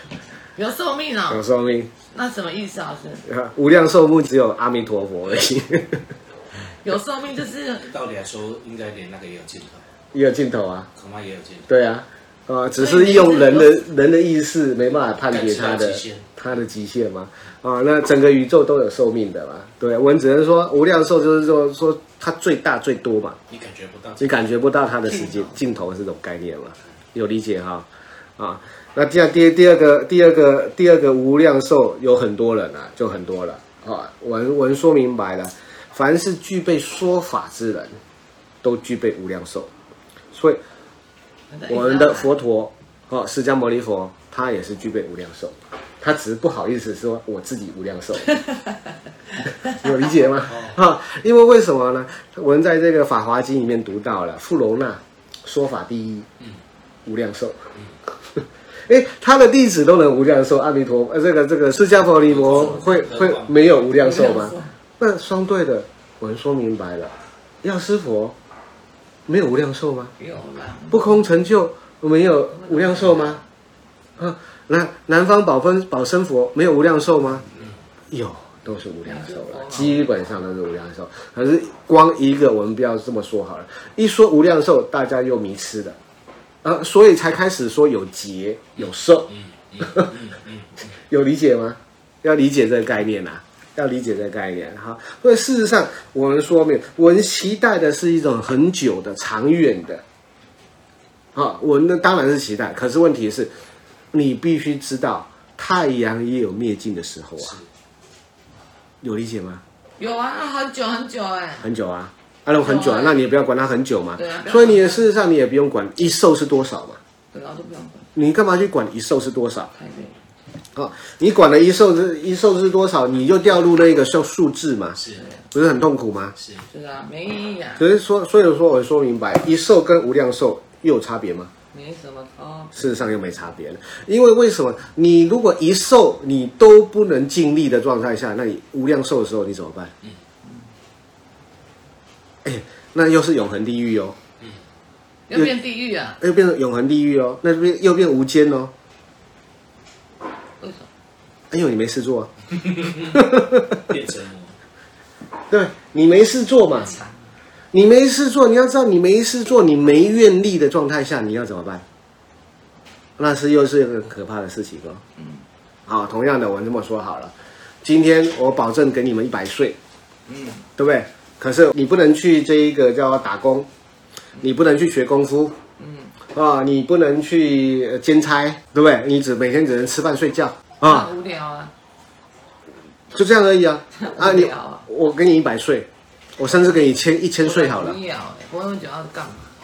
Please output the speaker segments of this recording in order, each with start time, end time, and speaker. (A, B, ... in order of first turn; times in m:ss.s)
0:00.6-0:01.4 A
0:01.3-0:01.9 B
0:02.1-0:03.3 A
0:03.3-0:06.0 B
0:06.6-0:07.9 A
0:07.8-0:09.8 C
0:10.1-0:10.9 B
0:11.0-0:11.7 C
0:11.7-0:23.4 B
0:12.8-0:13.8 A
0:15.3-0:16.3 C
0:23.5-0:24.5 C
0:24.2-0:27.9 B
0:25.1-0:25.6 A
0:28.4-0:38.0 B
0:38.6-0:39.7 B
0:40.3-0:40.6 B
0:41.5-0:42.3 A
0:41.7-0:48.4 B
0:49.6-0:56.3 B
0:57.1-0:57.6 B
0:58.4-1:08.4 B
1:02.2-1:03.9 C
1:04.0-1:04.7 A
1:09.3-1:10.1 B
1:10.2-1:11.3 A
1:10.9-1:13.4 B
1:12.6-1:13.1 A
1:14.2-1:17.5 B
1:18.1-1:26.0 B
1:19.0-1:20.1 A
1:26.6-1:30.2 B
1:29.7-1:30.8 C
1:31.1-1:40.0 B
1:41.4-1:43.5 B
1:44.1-1:47.6 B
1:47.4-1:47.6 C
1:49.0-1:49.6 B
1:50.0-1:51.7 A
1:51.6-1:57.0 B
1:52.6-1:53.3 A
1:54.2-1:55.1 A
1:57.3-1:58.1 A
1:58.2-1:59.7 B
1:59.8-2:00.2 A
2:00.8-2:05.0 B
2:05.2-2:05.4 A
2:05.5-2:06.4 B
2:06.4-2:06.7 C
2:06.7-2:07.8 A
2:07.8-2:11.5 B
2:11.7-2:12.9 A
2:12.8-2:19.9 B
2:22.4-2:24.2 B
2:25.3-2:26.2 A
2:26.2-2:28.7 B
2:30.6-2:30.9 A
2:31.5-2:32.3 B
2:32.8-2:34.6 C
2:33.1-2:33.6 B
2:35.5-2:37.0 B
2:36.7-2:37.2 A
2:37.7-2:41.8 B
2:43.2-2:45.0 B
2:45.2-2:45.4 A
2:45.9-2:49.8 B
2:50.3-2:50.7 A
2:50.8-2:53.7 B
2:54.4-2:55.6 B
2:55.8-2:56.1 A
2:56.3-3:01.1 B
3:00.8-3:01.7 A
3:03.1-3:08.0 B
3:03.9-3:04.9 A
3:07.4-3:09.5 A